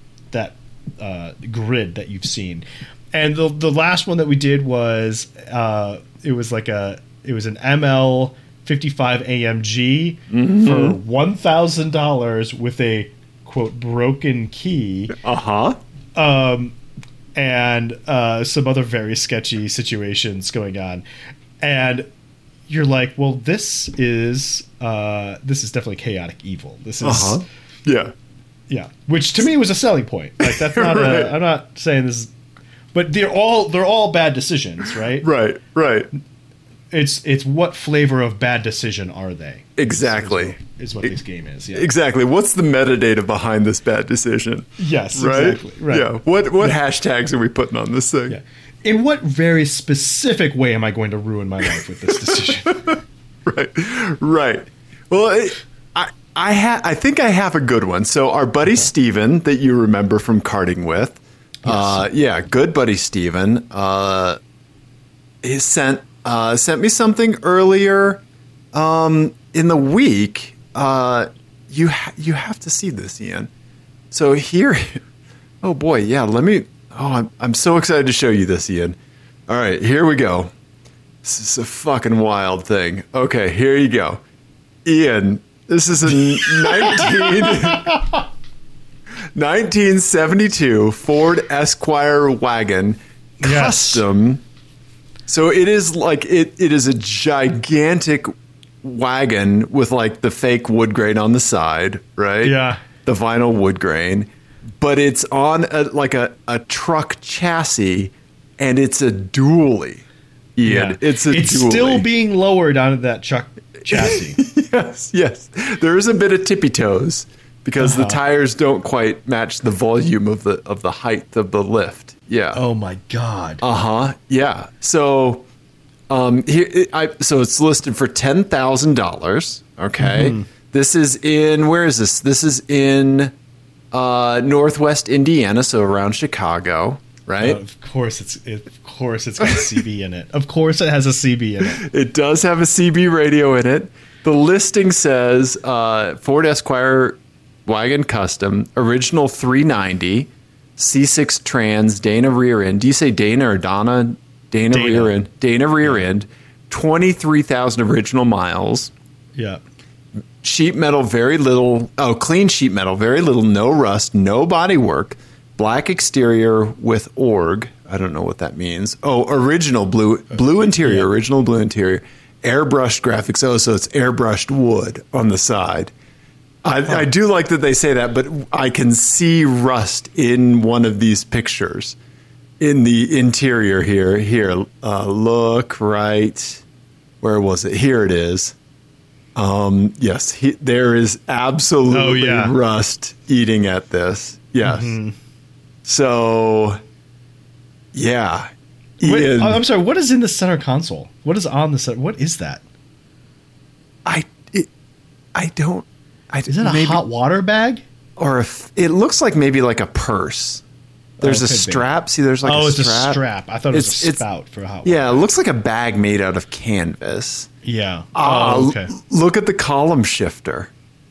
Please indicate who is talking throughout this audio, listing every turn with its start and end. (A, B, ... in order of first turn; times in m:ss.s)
0:00.3-0:15.2 A
0:10.3-0:11.0 B
0:15.2-0:15.8 B
0:16.2-0:16.8 A
0:17.4-0:21.0 A
0:21.6-0:22.1 A
0:22.7-0:27.4 A
0:27.0-0:28.1 B
0:28.7-0:32.3 A
0:30.4-0:31.3 B
0:32.9-0:35.3 A
0:35.2-0:36.1 B
0:36.9-0:41.9 A
0:39.8-0:41.1 B
0:41.7-0:48.4 B
0:44.8-0:46.8 A
0:48.3-0:53.0 A
0:52.2-1:04.4 B
1:01.6-1:02.1 A
1:05.4-1:13.5 B
1:14.1-1:15.0 B
1:15.6-1:19.0 B
1:19.5-1:20.5 B
1:21.2-1:24.2 B
1:24.8-1:28.0 B
1:26.1-1:28.2 A
1:29.4-1:34.4 B
1:33.4-1:34.0 A
1:35.3-1:38.3 B
1:38.8-1:44.3 B
1:42.4-1:42.8 A
1:44.8-1:50.0 B
1:50.6-1:52.0 B
1:50.6-1:54.4 A
1:53.9-2:02.6 B
1:57.8-1:58.2 A
2:02.5-2:03.6 A
2:03.6-2:05.4 B
2:06.1-2:13.3 B
2:10.0-2:10.5 A
2:13.9-2:17.6 B
2:17.4-2:21.8 A
2:21.7-2:38.9 B
2:34.7-2:35.2 A
2:40.4-2:55.9 B
2:50.8-2:51.1 A
2:56.6-3:02.0 B
3:02.6-3:06.6 B
3:07.2-3:08.6 B
3:09.4-3:15.0 B
3:11.9-3:12.5 A
3:14.6-3:15.2 A
3:15.8-3:16.8 B
3:17.9-3:19.6 B
3:19.0-3:22.6 A
3:24.0-3:24.7 B
3:25.4-3:27.0 B
3:26.5-3:27.8 A
3:28.2-3:30.6 B
3:31.2-3:31.9 A
3:31.2-3:33.2 B
3:32.4-3:35.3 A
3:33.7-3:34.2 B
3:34.8-3:37.5 B
3:37.6-3:38.9 A
3:38.2-3:40.7 B